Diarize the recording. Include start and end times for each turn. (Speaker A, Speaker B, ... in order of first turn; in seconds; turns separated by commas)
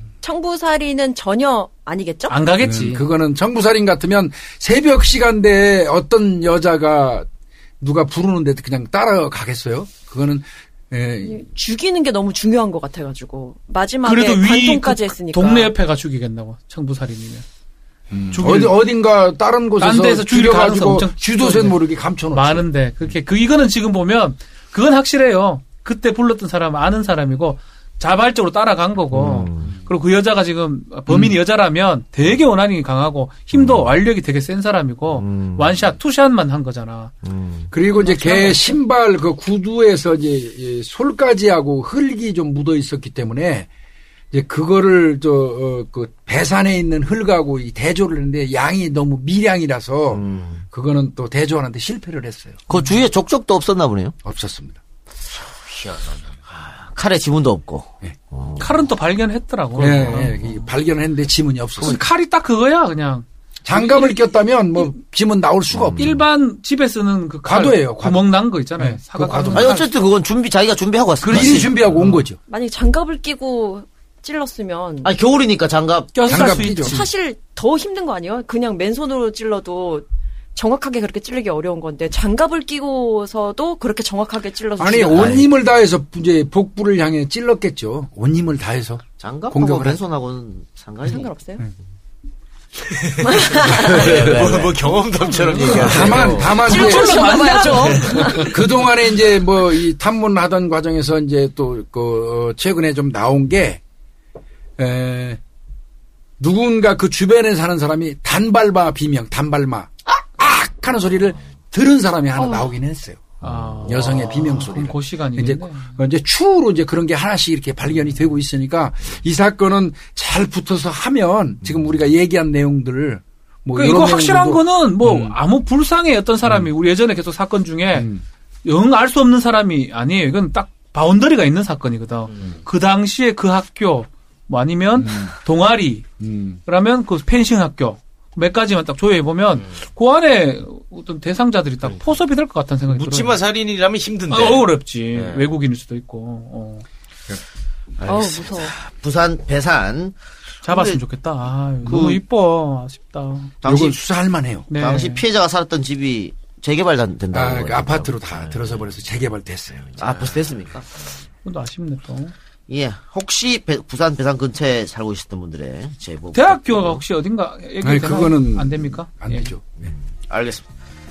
Speaker A: 0.2-2.4, Speaker B: 2.3-3.0, Speaker C: 2.6-7.3, Speaker C: 7.8-11.4, Speaker A: 11.2-15.7, Speaker B: 14.0-17.4, Speaker C: 18.1-22.6, Speaker B: 18.3-18.8, Speaker B: 19.8-21.8, Speaker B: 22.3-37.1, Speaker D: 29.1-29.7, Speaker C: 31.1-31.4, Speaker D: 33.5-33.9, Speaker D: 35.1-35.9, Speaker D: 37.2-37.7, Speaker C: 37.7-43.7, Speaker B: 38.0-38.8, Speaker C: 44.3-52.6, Speaker D: 50.1-50.6, Speaker D: 52.7-54.1, Speaker C: 54.2-54.8, Speaker E: 55.7-56.4, Speaker D: 56.5-58.7, Speaker B: 58.6-60.4, Speaker C: 59.8-62.0, Speaker D: 59.8-60.1, Speaker B: 61.8-64.9, Speaker C: 63.6-66.2, Speaker D: 65.7-66.2, Speaker B: 66.0-69.9, Speaker C: 67.4-69.8, Speaker D: 69.5-71.8, Speaker B: 71.2-72.2, Speaker C: 71.2-72.4, Speaker A: 72.5-75.1, Speaker D: 75.0-76.1, Speaker B: 76.1-77.1, Speaker A: 76.2-85.4, Speaker C: 76.3-77.0, Speaker C: 84.8-90.0, Speaker D: 85.1-85.4, Speaker D: 89.2-91.3, Speaker A: 91.0-91.7, Speaker E: 93.0-96.7, Speaker A: 93.2-94.1, Speaker D: 93.7-94.8, Speaker C: 94.0-94.5, Speaker D: 95.5-96.5, Speaker C: 95.6-97.2, Speaker B: 96.4-98.5, Speaker A: 96.6-98.6, Speaker C: 98.4-103.8, Speaker C: 104.8-105.4, Speaker C: 106.4-125.3, Speaker A: 112.3-112.7, Speaker B: 113.4-116.0, Speaker B: 123.7-128.1, Speaker C: 127.9-128.2, Speaker B: 128.6-136.1, Speaker E: 132.3-132.6, Speaker C: 135.0-135.3, Speaker C: 136.2-136.6, Speaker B: 136.7-143.4, Speaker E: 142.9-145.5, Speaker B: 144.3-146.8, Speaker D: 148.0-151.0, Speaker A: 148.0-148.7, Speaker B: 150.6-153.6, Speaker D: 151.8-152.2, Speaker D: 153.6-154.0, Speaker C: 153.6-154.7, Speaker B: 154.7-155.2, Speaker D: 154.7-158.9, Speaker C: 157.3-160.2, Speaker D: 159.9-160.8, Speaker B: 161.4-162.3, Speaker D: 162.7-167.0, Speaker B: 166.3-169.5, Speaker C: 167.8-169.7, Speaker D: 169.8-170.7